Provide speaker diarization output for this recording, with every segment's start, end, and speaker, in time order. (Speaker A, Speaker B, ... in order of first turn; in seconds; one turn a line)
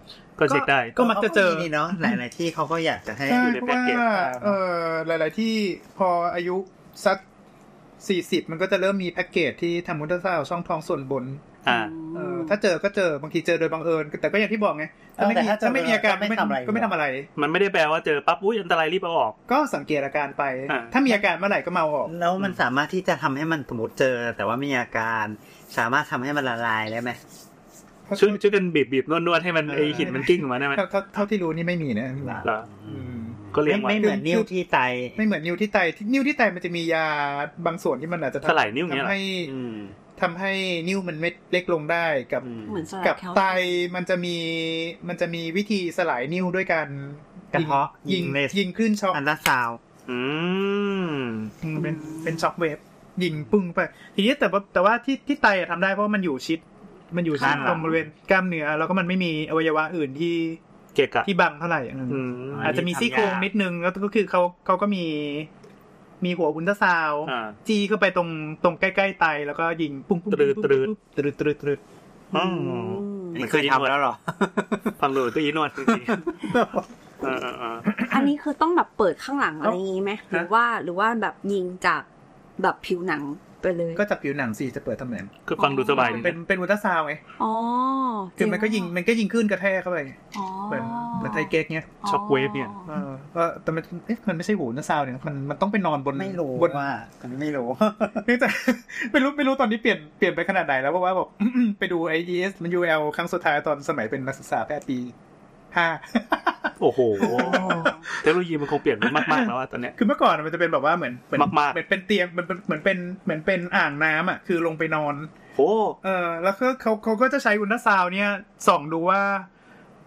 Speaker A: 0.4-0.9
Speaker B: 0.5-2.2
Speaker C: 1.0-3.6
Speaker B: 3.2-7.2
Speaker A: 3.4-4.5
Speaker B: 8.0-11.4
Speaker A: 11.6-11.9
Speaker D: 11.7-12.6
Speaker B: 12.1-17.3
Speaker C: 15.2-17.0
Speaker A: 17.4-19.4
Speaker B: 19.5-22.1
Speaker A: 20.7-20.9
Speaker C: 22.1-27.2
Speaker B: 28.1-28.4
Speaker A: 28.2-30.8
Speaker B: 29.7-33.4
Speaker C: 32.2-35.2
Speaker A: 32.4-32.7
Speaker A: 33.5-34.2
Speaker B: 34.0-34.5
Speaker B: 35.2-39.5
Speaker A: 38.4-39.2
Speaker C: 39.5-40.0
Speaker B: 40.2-42.5
Speaker C: 42.4-42.9
Speaker D: 42.7-43.9
Speaker B: 43.0-49.2
Speaker C: 47.5-49.8
Speaker A: 50.1-51.5
Speaker B: 51.6-60.6
Speaker D: 51.8-52.5
Speaker C: 57.4-58.0
Speaker D: 57.4-57.8
Speaker A: 61.0-61.3
Speaker B: 61.2-65.5
Speaker A: 62.1-62.9
Speaker C: 62.5-63.5
Speaker B: 66.2-71.8
Speaker A: 67.2-67.6
Speaker A: 70.3-70.9
Speaker C: 72.3-75.0
Speaker A: 72.3-72.8
Speaker D: 72.4-73.4
Speaker A: 73.4-73.9
Speaker A: 75.0-76.3
Speaker C: 75.9-76.8
Speaker A: 77.2-77.9
Speaker B: 77.9-78.3
Speaker D: 78.1-82.1
Speaker D: 82.6-84.0
Speaker B: 84.0-85.3
Speaker A: 85.5-86.4
Speaker D: 85.6-86.3
Speaker B: 85.9-87.2
Speaker D: 87.4-88.9
Speaker B: 88.4-90.2
Speaker D: 90.3-91.5
Speaker B: 90.7-92.0
Speaker A: 92.0-92.8
Speaker D: 92.0-93.0
Speaker B: 92.9-96.9
Speaker C: 96.1-98.2
Speaker B: 98.2-105.1
Speaker B: 105.7-108.3
Speaker A: 106.8-109.9
Speaker D: 107.6-108.1
Speaker B: 109.0-115.3
Speaker A: 111.3-111.8
Speaker A: 115.5-116.0
Speaker B: 116.0-119.5